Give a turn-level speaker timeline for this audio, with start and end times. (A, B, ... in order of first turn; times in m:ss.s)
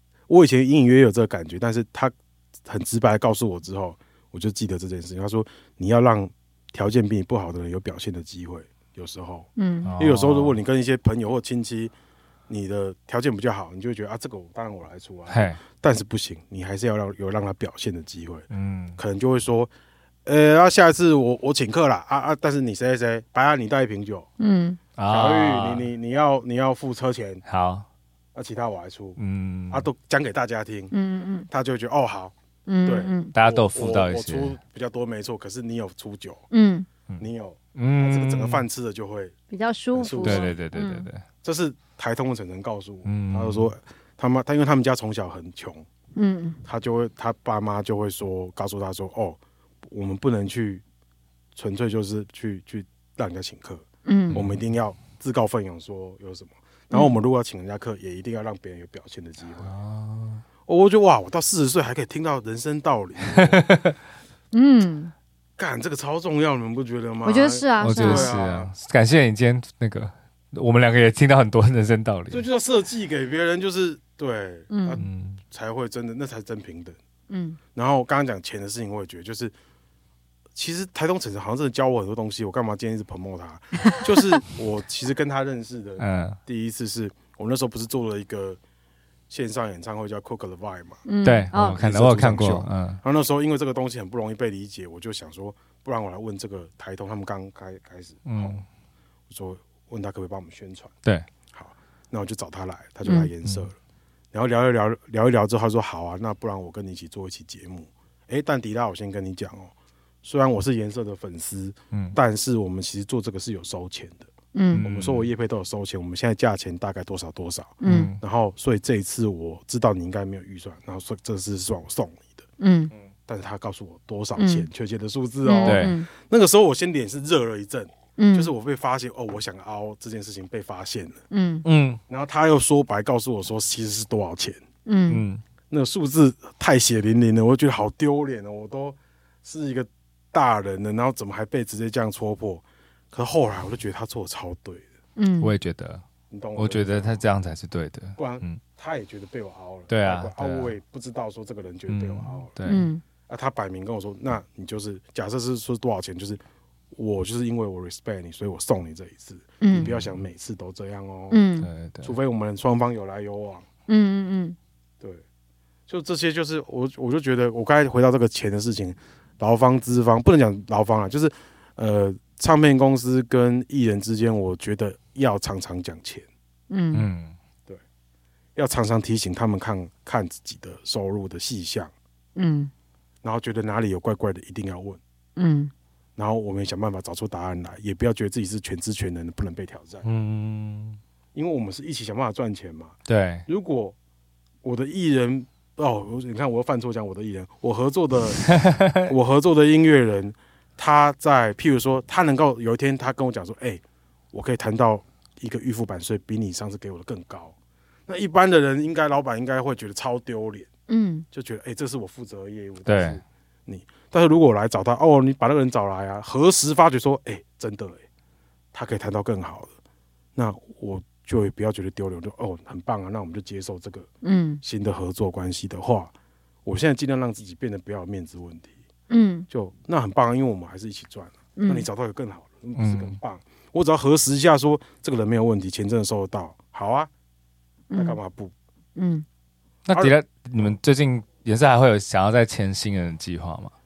0:00.3-0:02.1 A
0:02.6-0:11.9 A
0:09.6-0:09.9 B
0:09.8-0:10.6 C
0:12.5-0:18.4 A
0:15.3-0:15.6 C
0:18.5-0:19.0 C
0:19.0-0:19.7 A
0:20.2-0:24.3 A
0:24.4-0:24.8 B
0:25.0-0:25.8 C
0:25.1-0:27.4 A
0:27.4-0:27.9 C
0:28.3-0:29.2 A
0:29.2-0:29.8 C
0:29.7-0:30.9 A
0:30.9-0:31.5 B
0:31.5-0:32.3 A
0:32.7-0:33.3 B
0:32.8-0:36.4 A
0:33.3-0:34.6 C
0:36.5-0:36.9 B
0:37.2-0:39.4 A
0:37.7-0:38.6 C
0:39.5-0:41.1 B
0:39.9-0:40.5 A
0:40.2-0:41.2 C
0:41.4-0:45.8 A
0:43.0-0:43.7 C
0:46.2-0:46.6 B
0:46.6-0:50.8 A
0:51.5-0:59.7 A
0:54.0-0:54.4 B
0:54.3-0:54.6 C
0:59.6-1:00.4 C
1:00.7-1:03.7 A
1:03.3-1:04.0 C
1:04.5-1:05.1 B
1:05.6-1:08.7 A
1:07.2-1:08.3 B
1:07.8-1:12.4 C
1:12.3-1:17.0 A
1:14.7-1:15.0 B
1:15.0-1:15.4 C
1:17.3-1:17.6 B
1:17.7-1:19.5 A
1:20.5-1:28.6 A
1:26.0-1:26.4 C
1:29.3-1:31.0 A
1:31.1-1:31.8 B
1:31.2-1:33.0 C
1:31.6-1:38.6 A
1:38.2-1:38.6 C
1:39.3-1:40.9 A
1:41.5-1:43.7 A
1:43.0-1:43.3 B
1:44.3-1:54.3 A
1:51.9-1:52.2 C
1:54.5-1:54.8 B
1:54.7-1:55.3 C
1:54.8-2:02.5 A
1:57.8-1:58.1 B
1:57.8-1:58.2 C
2:02.6-2:02.9 B
2:03.2-2:11.2 A
2:04.4-2:04.7 B
2:05.4-2:06.1 B
2:05.6-2:05.9 C
2:08.2-2:08.5 B
2:11.3-2:11.6 B
2:11.6-2:12.0 C
2:12.1-2:14.6 A
2:14.8-2:15.2 B
2:15.1-2:15.4 C
2:15.7-2:24.9 A
2:25.2-2:25.5 B
2:25.4-2:26.0 C
2:26.3-2:27.2 A
2:26.6-2:28.6 C
2:28.2-2:32.5 A
2:29.9-2:30.7 C
2:31.9-2:32.9 C
2:32.6-2:33.0 B
2:33.3-2:36.4 A
2:36.9-2:41.5 A
2:39.6-2:39.9 B
2:39.7-2:40.1 C
2:41.3-2:41.7 B
2:41.6-2:42.1 C
2:42.0-2:43.6 A
2:43.9-2:44.6 B
2:45.9-2:56.2 A
2:56.7-2:57.1 B
2:56.9-2:57.4 C
2:58.6-3:01.9 A
3:02.4-3:02.7 B
3:03.2-3:05.0 A
3:05.4-3:05.7 B
3:06.2-3:10.0 A
3:10.0-3:11.0 C
3:11.3-3:13.9 A
3:13.1-3:13.4 C
3:14.6-3:18.5 A
3:18.5-3:19.1 C
3:19.0-3:27.5 A
3:28.1-3:30.7 A
3:30.9-3:31.2 B
3:31.3-3:38.0 A
3:32.9-3:33.2 C
3:38.7-3:39.7 A
3:40.3-3:44.1 A
3:44.2-3:44.6 B
3:44.6-3:46.1 A
3:46.6-3:48.8 A
3:49.1-3:49.5 B
3:49.5-3:57.1 A
3:51.6-3:51.8 B
3:52.8-3:53.2 C
3:57.9-3:58.2 B
3:57.9-3:58.5 A
3:59.0-3:59.2 B
3:59.8-4:03.7 C
3:59.9-4:00.7 A